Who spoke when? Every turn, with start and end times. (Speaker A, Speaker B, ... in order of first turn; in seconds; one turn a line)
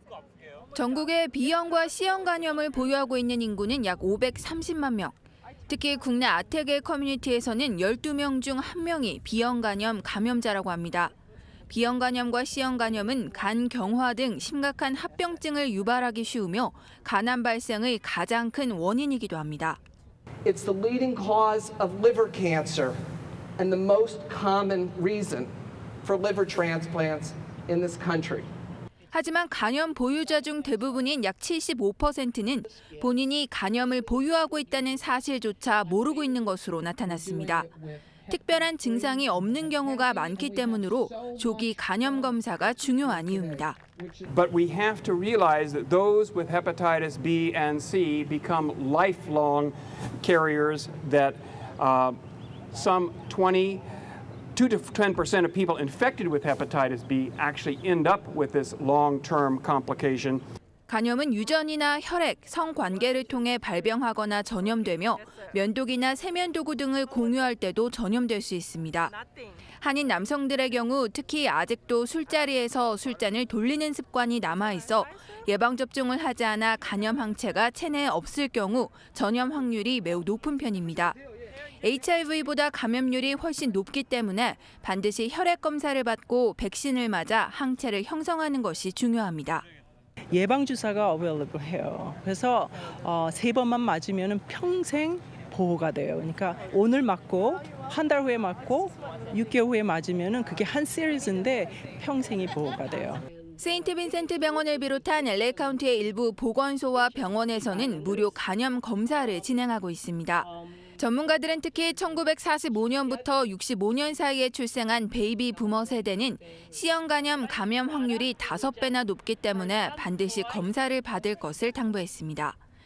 Speaker A: 0.8-5.2
Speaker A: 5.7-11.1
Speaker A: 11.7-19.8
Speaker B: 20.4-23.0
Speaker B: 23.6-25.5
Speaker B: 26.0-28.5
Speaker A: 29.1-37.7
Speaker B: 37.2-42.4
Speaker A: 38.3-43.8
Speaker B: 43.0-44.3
Speaker C: 44.3-52.2
Speaker C: 52.7-53.8
Speaker C: 54.5-60.4
Speaker A: 60.9-69.1
Speaker A: 69.8-81.2
Speaker A: 81.8-89.7
Speaker D: 90.3-103.2
Speaker A: 103.6-122.6